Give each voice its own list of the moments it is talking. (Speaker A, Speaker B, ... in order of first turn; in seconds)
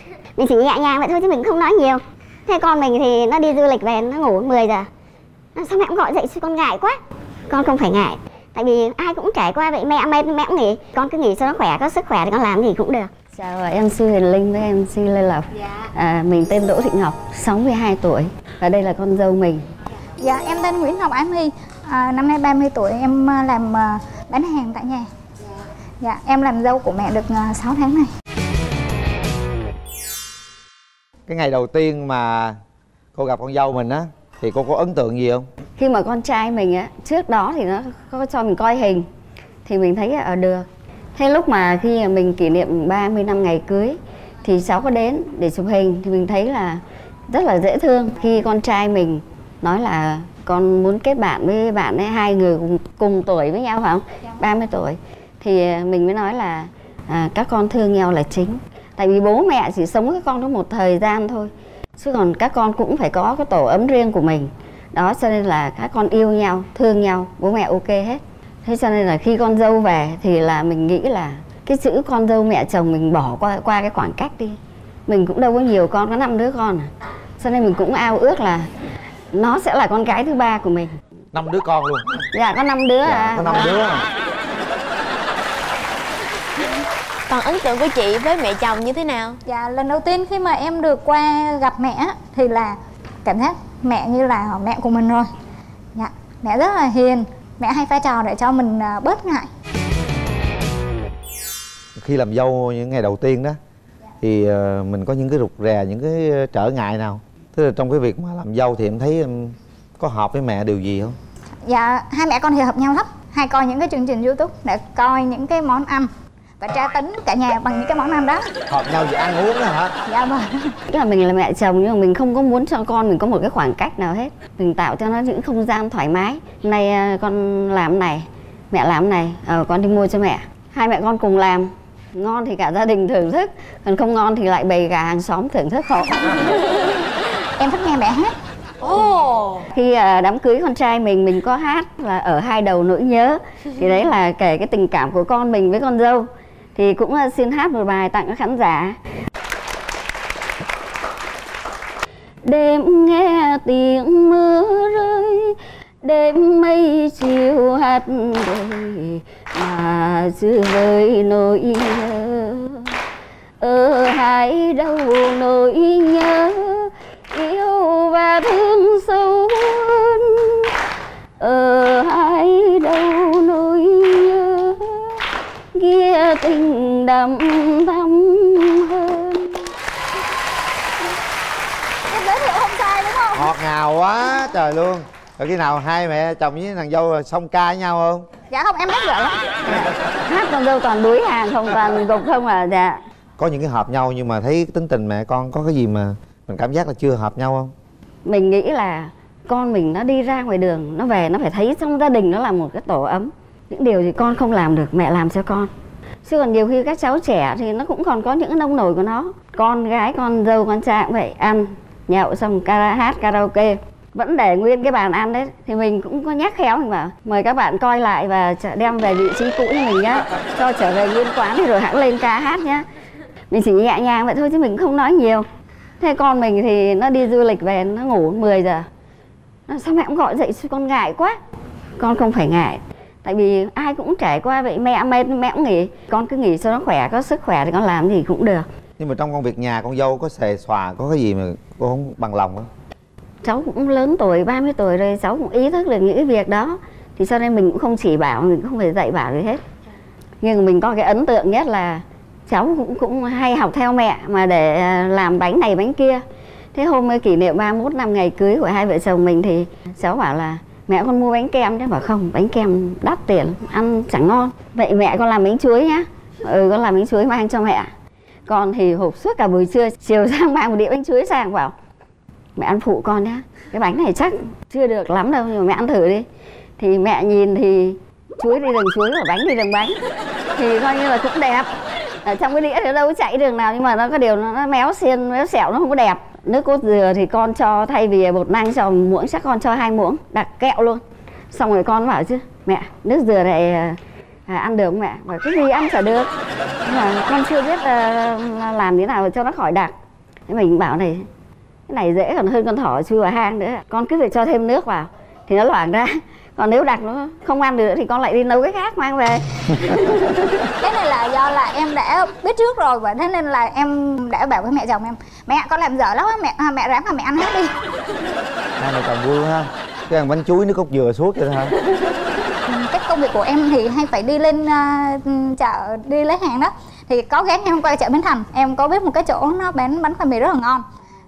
Speaker A: 0.4-4.9, 5.5-7.0, 7.5-13.1
Speaker B: 13.3-19.6, 35.8-39.1, 39.6-78.7, 79.3-81.0, 82.3-83.8, 120.9-136.9, 139.7-149.0, 152.4-163.0, 163.6-170.7, 171.4-175.2, 175.7-179.7, 189.6-193.0, 198.2-205.7, 206.2-222.9, 223.5-225.5, 226.0-228.9, 229.7-231.4, 232.0-238.7, 243.4-249.6, 250.4-267.9, 268.5-271.7, 272.6-276.3, 276.8-280.0, 280.5-296.3, 296.8-299.9, 300.5-301.3, 301.9-310.7
Speaker C: 20.2-25.1, 26.0-28.1, 89.5-95.3, 96.0-99.5, 111.7-116.1, 116.6-118.4, 120.1-120.7, 137.6-138.3, 182.1-183.5, 188.5-189.4, 310.8-317.7, 322.7-330.8
Speaker D: 31.3-32.6, 33.1-35.5, 81.3-82.2, 83.0-84.0, 102.0-103.6, 104.2-111.2, 118.7-119.9, 183.3-188.3, 193.4-197.7, 239.0-242.7, 318.8-321.8
Speaker E: 87.3-89.4, 138.8-139.6